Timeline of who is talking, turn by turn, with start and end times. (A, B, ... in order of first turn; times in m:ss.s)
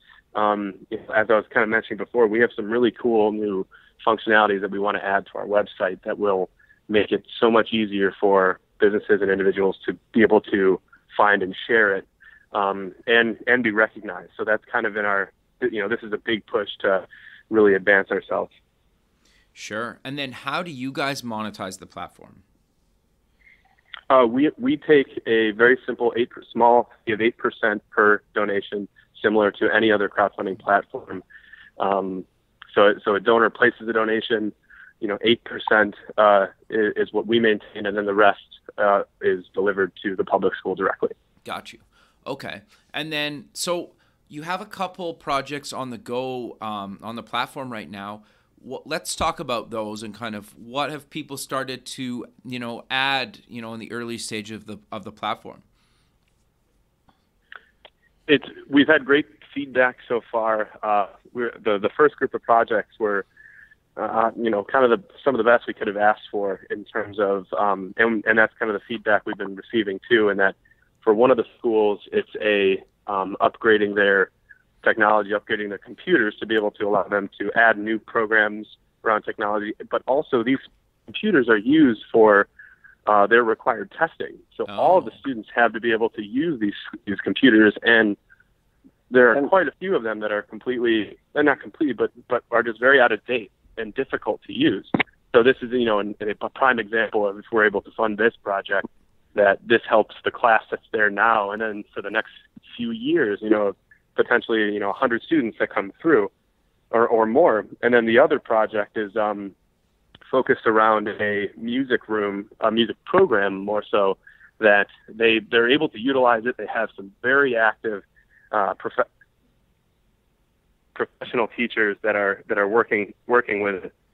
0:00.3-0:18.5 A
0:19.6-0:22.4 B
0:24.1-0:31.2 A
0:31.8-0:41.1 A
0:41.4-0:55.6 B
0:58.3-1:03.2 A
1:04.0-1:14.3 A
1:14.8-1:22.5 A
1:23.1-1:28.2 A
1:24.7-1:25.2 B
1:29.1-1:38.8 A
1:39.4-1:46.3 A
1:46.9-1:49.5 A
1:50.3-1:59.1 A
2:01.0-2:03.9 A